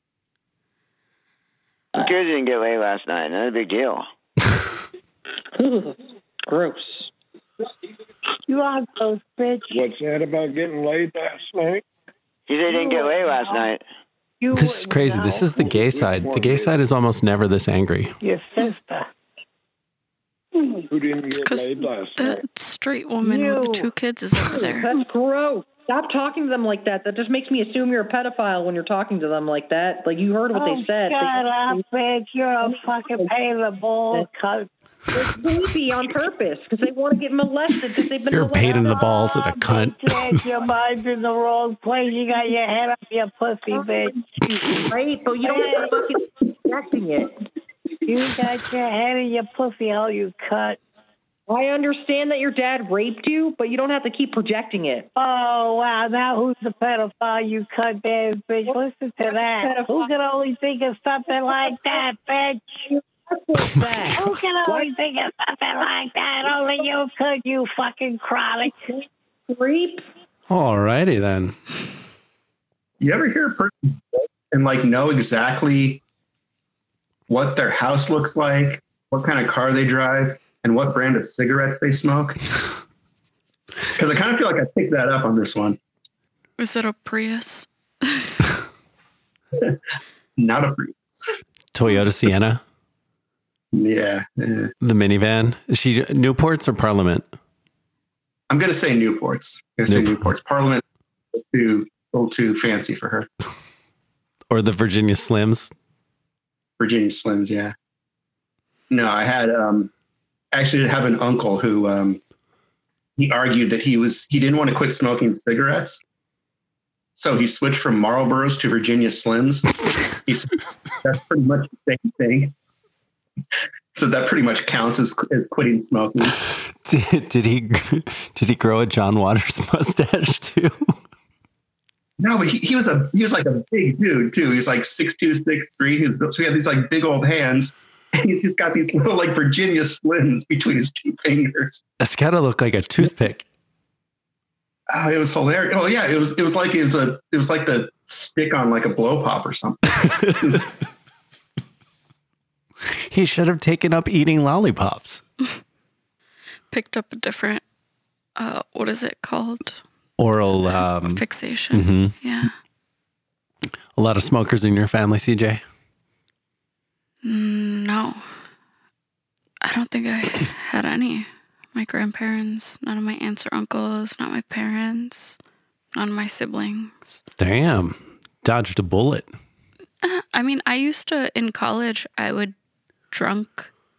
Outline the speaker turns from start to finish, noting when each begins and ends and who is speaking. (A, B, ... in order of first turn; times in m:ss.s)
0:02.0-0:04.1 A
0:05.6-0:07.1 B
0:08.5-0:09.8 C
0:09.7-0:11.8 D
0:12.5-0:13.8 A
0:12.7-0:13.7 C
0:14.4-0:15.5 C
0:14.5-0:18.1 E
0:15.7-0:16.8 D
0:18.2-0:19.1 C
0:20.9-0:22.4 D
0:21.4-0:24.9 F
0:23.2-0:23.9 C
0:24.5-0:31.8 B
0:30.5-0:34.7 C
0:32.7-0:33.3 B
0:35.1-0:39.3 B
0:38.3-0:40.4 E
0:39.1-0:44.2 C
0:43.7-0:47.4 B
0:45.6-0:45.8 C
0:48.1-0:50.8 C
0:51.5-0:55.1 B
0:55.2-1:02.8 C
0:59.6-1:00.1 B
1:01.7-1:02.0 B
1:02.9-1:04.9 B
1:03.8-1:04.1 E
1:04.2-1:08.9 C
1:09.5-1:10.0 B
1:10.5-1:11.6 E
1:13.0-1:16.0 G
1:17.3-1:22.4 G
1:24.0-1:25.8 G
1:26.6-1:28.4 F
1:30.4-1:31.3 G
1:31.7-1:32.6 E
1:33.7-1:34.7 G
1:34.8-1:37.2 E
1:38.5-1:40.8 G
1:39.9-1:40.3 E
1:41.3-1:43.3 G
1:44.5-1:45.7 E
1:46.8-1:47.7 G
1:48.9-1:49.9 G
1:50.5-1:52.2 G
1:53.2-1:56.0 G
1:57.2-2:00.5 G
2:01.0-2:02.5 G
2:04.0-2:06.4 G
2:06.8-2:10.9 E
2:12.2-2:21.8 G
2:22.0-2:23.4 E
2:24.9-2:30.7 G
2:33.0-2:35.2 E
2:36.7-2:37.6 F
2:38.4-2:39.8 F
2:40.2-2:42.1 E
2:40.8-2:42.5 F
2:44.0-2:45.6 E
2:47.2-2:48.2 F
2:49.6-2:55.4 F
2:55.9-2:57.2 F
2:57.4-2:59.3 E
3:00.0-3:02.6 F
3:03.1-3:03.7 F